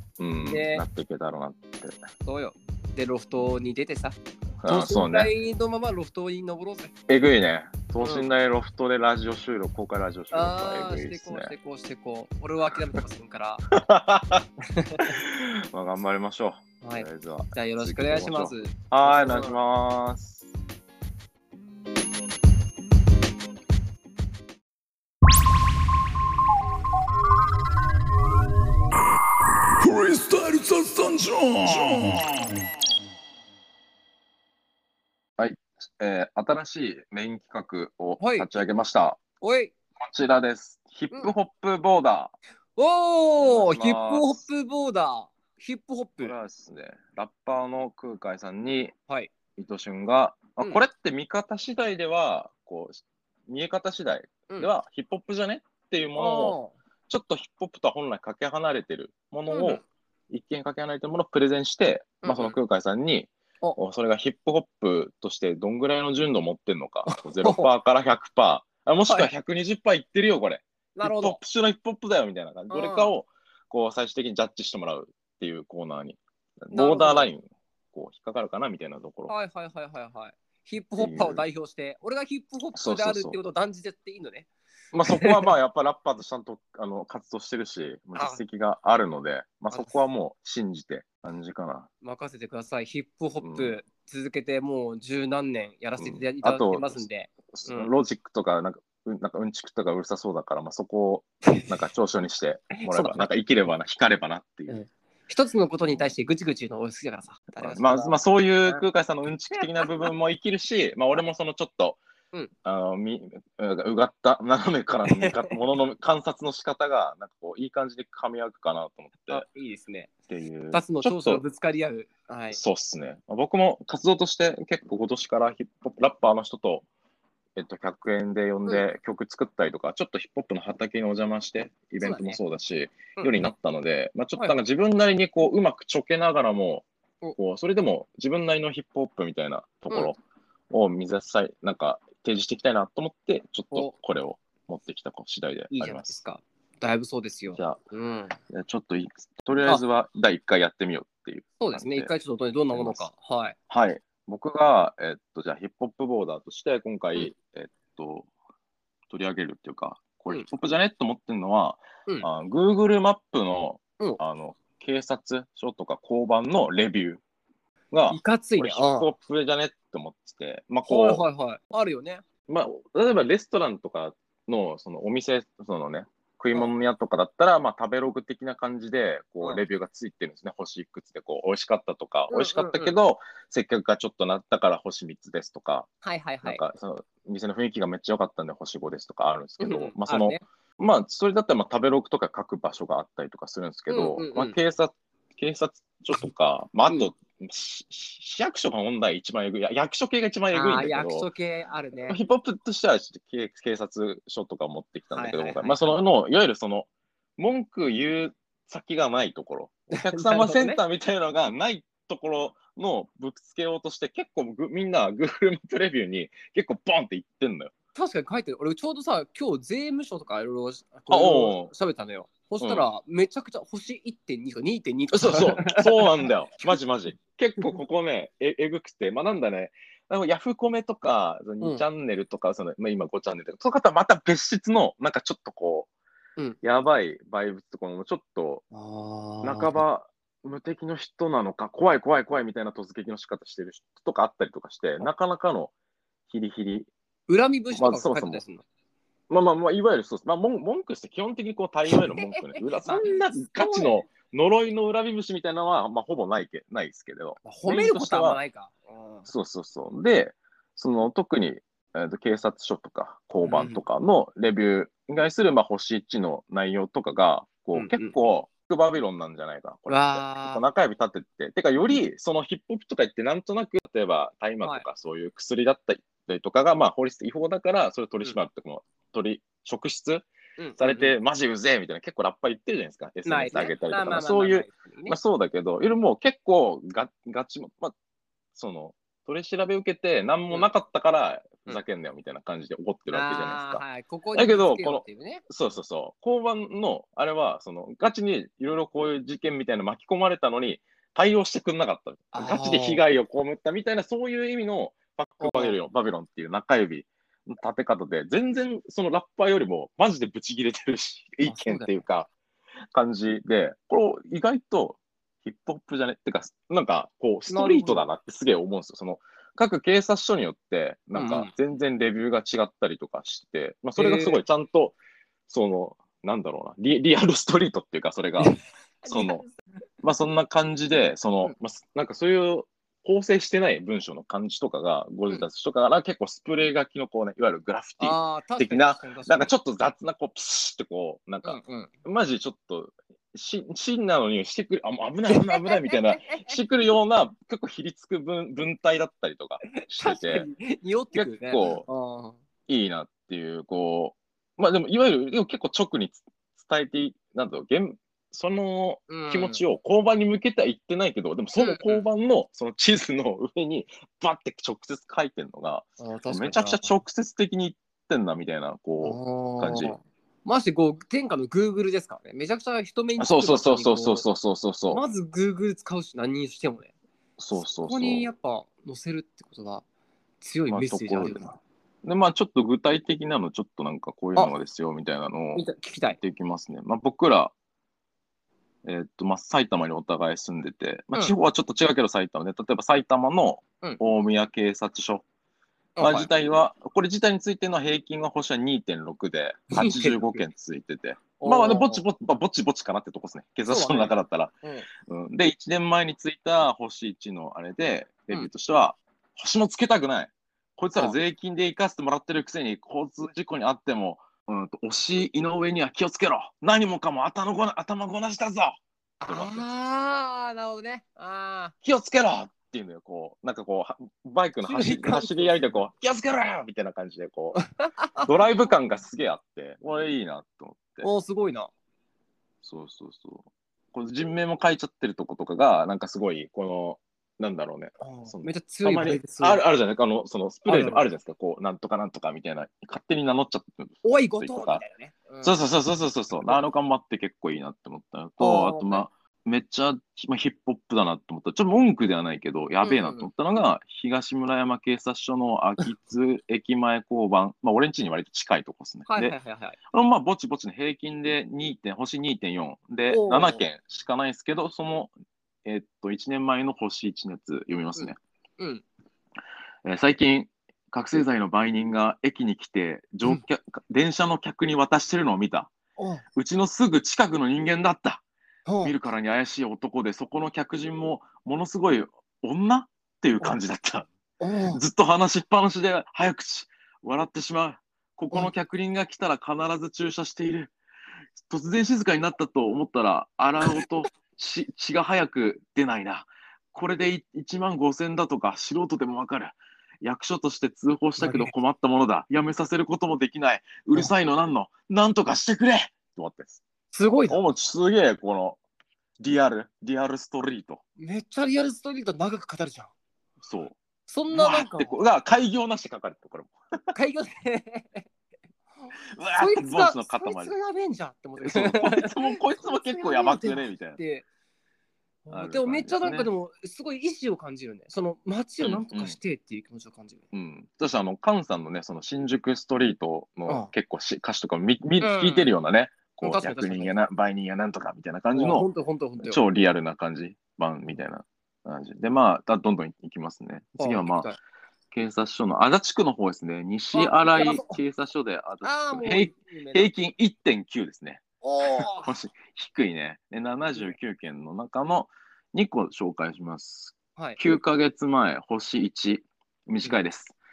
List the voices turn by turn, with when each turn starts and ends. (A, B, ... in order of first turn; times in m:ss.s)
0:00.2-0:02.0 A
0:00.5-0:00.8 B
0:02.2-0:06.9 B
0:04.6-0:05.3 A
0:07.1-0:11.5 A
0:08.0-0:08.3 B
0:10.3-0:13.7 B
0:13.7-0:14.4 A
0:14.7-0:15.2 B
0:15.0-0:20.4 A
0:16.8-0:19.6 B
0:29.8-0:32.3 C
0:35.4-0:39.2 A
0:38.2-0:38.5 B
0:39.4-0:39.7 B
0:40.0-0:42.4 A
0:42.8-0:46.3 B
0:43.4-0:44.4 A
0:46.2-0:48.9 A
0:49.6-0:56.6 A
0:56.2-0:56.8 B
0:57.1-1:19.3 A
0:59.5-0:59.8 B
1:02.2-1:02.6 B
1:07.1-1:07.7 B
1:09.0-1:09.3 B
1:11.0-1:11.4 B
1:12.7-1:13.1 B
1:16.7-1:17.3 B
1:19.3-1:24.5 B
1:21.0-1:21.4 A
1:22.8-1:23.4 A
1:24.9-1:31.9 A
1:25.0-1:25.5 B
1:28.2-1:28.4 B
1:29.7-1:30.0 B
1:32.0-1:37.9 B
1:33.4-1:33.7 A
1:36.0-1:44.8 A
1:42.7-1:43.2 B
1:44.7-1:48.8 B
1:47.6-1:52.0 A
1:52.6-1:59.4 A
1:55.1-1:55.6 B
1:59.3-2:00.1 B
2:00.3-2:01.4 A
2:00.7-2:02.6 B
2:02.5-2:06.9 A
2:07.6-2:16.9 A
2:12.0-2:12.4 B
2:17.4-2:20.2 A
2:20.7-2:26.2 A
2:25.7-2:28.4 B
2:27.5-2:27.8 A
2:28.5-2:32.1 A
2:31.6-2:33.6 B
2:32.7-2:33.1 A
2:33.7-2:38.3 A
2:39.1-2:47.2 A
2:47.9-2:51.2 A
2:48.1-2:49.1 B
2:50.8-2:52.2 B
2:52.5-3:05.9 A
3:02.3-3:03.0 B
3:06.0-3:06.6 B
3:06.4-3:21.3 A
3:09.6-3:10.4 B
3:13.9-3:14.6 B
3:20.5-3:22.2 B
3:22.1-3:37.7 A
3:25.1-3:26.0 B
3:29.9-3:30.8 B
3:37.9-3:46.3 B
3:41.1-3:41.7 A
3:42.6-3:42.9 A
3:45.1-3:55.9 A
3:56.6-3:58.6 A
3:58.7-3:59.8 B
3:59.4-4:05.7 A
4:06.3-4:06.9 A
4:07.3-4:08.6 B
4:07.7-4:08.4 A
4:09.3-4:18.4 A
4:12.0-4:13.9 B
4:17.4-4:19.3 B
4:19.3-4:48.0 A
4:23.4-4:23.8 B
4:27.8-4:28.1 B
4:29.9-4:30.6 B
4:40.6-4:41.2 B
4:43.3-4:45.2 B
4:48.6-5:12.3 A
4:53.1-4:55.4 B
5:02.3-5:03.0 B
5:05.4-5:05.8 B
5:11.4-5:11.9 B
5:12.9-5:25.0 A
5:17.5-5:18.1 B
5:21.1-5:21.5 B
5:24.0-5:24.4 B
5:25.5-5:28.6 A
5:28.4-5:29.6 B
5:29.1-5:29.4 A
5:30.0-5:50.5 A
5:38.0-5:39.5 B
5:41.4-5:41.9 B
5:45.3-5:46.5 B
5:49.7-5:52.4 B
5:51.1-5:51.8 A
5:52.7-6:10.0 A
5:59.1-5:59.6 B
6:01.6-6:02.0 B
6:06.0-6:06.9 B
6:09.0-6:14.2 B
6:13.2-6:15.0 A
6:14.9-6:16.9 B
6:17.4-6:18.3 A
6:17.6-6:19.8 B
6:20.4-6:21.6 B
6:20.7-6:21.5 A
6:22.0-6:25.7 A
6:25.6-6:26.2 B
6:26.2-6:27.5 A
6:28.8-6:35.2 A
6:36.0-6:36.3 B
6:36.0-6:59.6 A
6:39.7-6:40.4 B
6:41.4-6:42.0 B
6:43.7-6:44.9 B
6:59.2-7:01.7 B
7:01.8-7:07.6 A
7:04.6-7:05.7 B
7:07.6-7:08.3 B
7:08.2-7:11.1 A
7:11.0-7:11.7 B
7:12.6-7:24.8 A
7:18.0-7:19.6 B
7:20.7-7:21.0 B
7:24.0-7:25.6 B
7:25.4-7:39.3 A
7:28.4-7:29.1 B
7:32.8-7:33.3 B
7:39.1-7:39.8 B
7:39.9-7:45.1 A
7:43.1-7:43.6 B
7:45.6-7:48.2 A
7:48.0-7:48.8 B
7:49.8-7:55.7 A
7:56.0-7:56.2 B
7:56.3-7:58.2 A
7:58.7-7:59.0 B
7:58.8-8:04.1 A
8:04.4-8:04.8 B
8:04.7-8:10.7 A
8:11.5-8:26.6 A
8:21.2-8:21.5 B
8:26.9-8:27.4 B
8:27.3-8:28.6 A
8:29.2-8:30.8 A
8:31.0-8:32.9 B
8:33.4-8:33.8 A
8:34.1-8:35.0 B
8:34.3-8:36.6 A
8:36.9-8:38.1 B
8:38.8-8:44.3 B
8:39.2-8:40.5 A
8:41.4-8:44.0 A
8:45.3-8:50.3 B
8:45.3-8:46.3 A
8:48.6-8:49.2 A
8:50.3-8:58.7 A
8:55.0-8:55.5 B
8:56.2-8:57.0 B
8:58.3-8:59.4 B
8:59.2-9:04.3 A
9:03.8-9:04.4 B
9:04.9-9:20.4 A
9:06.9-9:07.8 B
9:08.6-9:09.9 B
9:11.4-9:12.1 B
9:17.2-9:17.4 B